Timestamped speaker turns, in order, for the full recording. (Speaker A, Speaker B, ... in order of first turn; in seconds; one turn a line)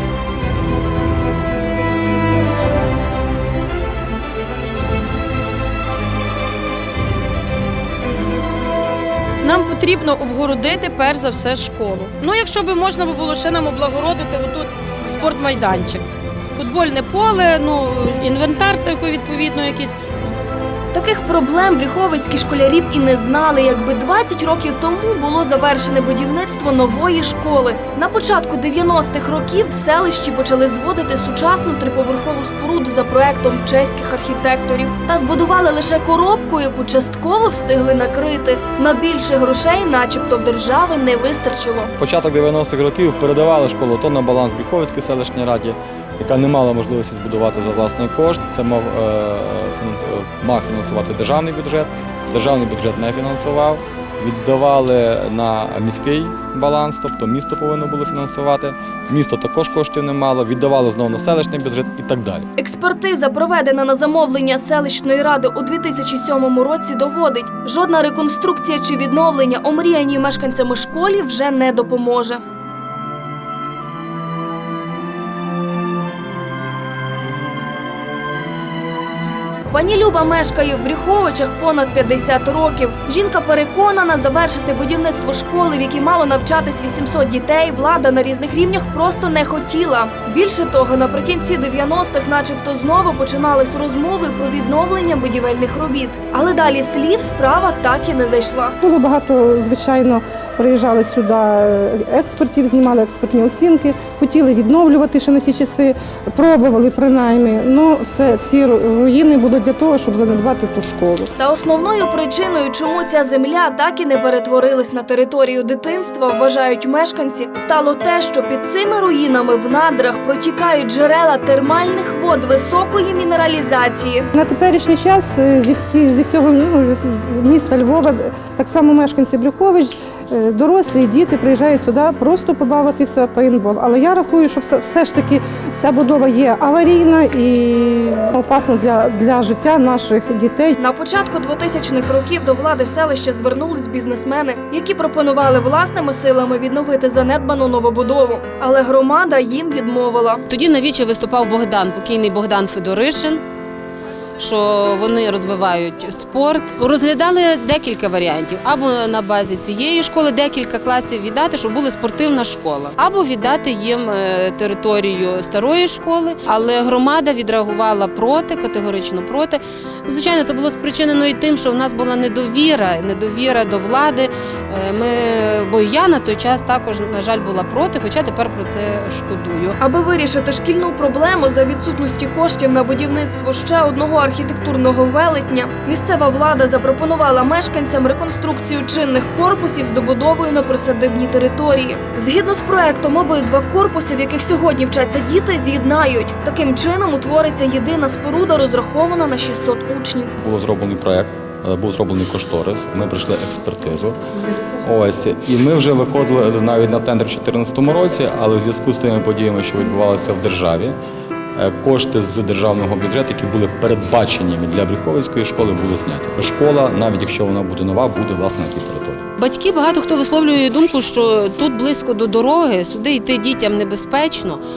Speaker A: 9.4-16.0
Speaker A: 16.6-19.9
Speaker B: 20.9-41.9
Speaker C: 42.0-62.5
Speaker B: 62.6-72.4
Speaker B: 79.7-98.8
Speaker D: 98.8-111.3
Speaker B: 111.4-124.3
Speaker D: 124.3-140.8
Speaker B: 140.8-150.4
Speaker E: 150.5-153.4
Speaker E: 154.4-179.8
Speaker B: 179.8-200.3
Speaker C: 200.4-210.9
Speaker C: 211.6-219.2
Speaker E: 219.4-224.6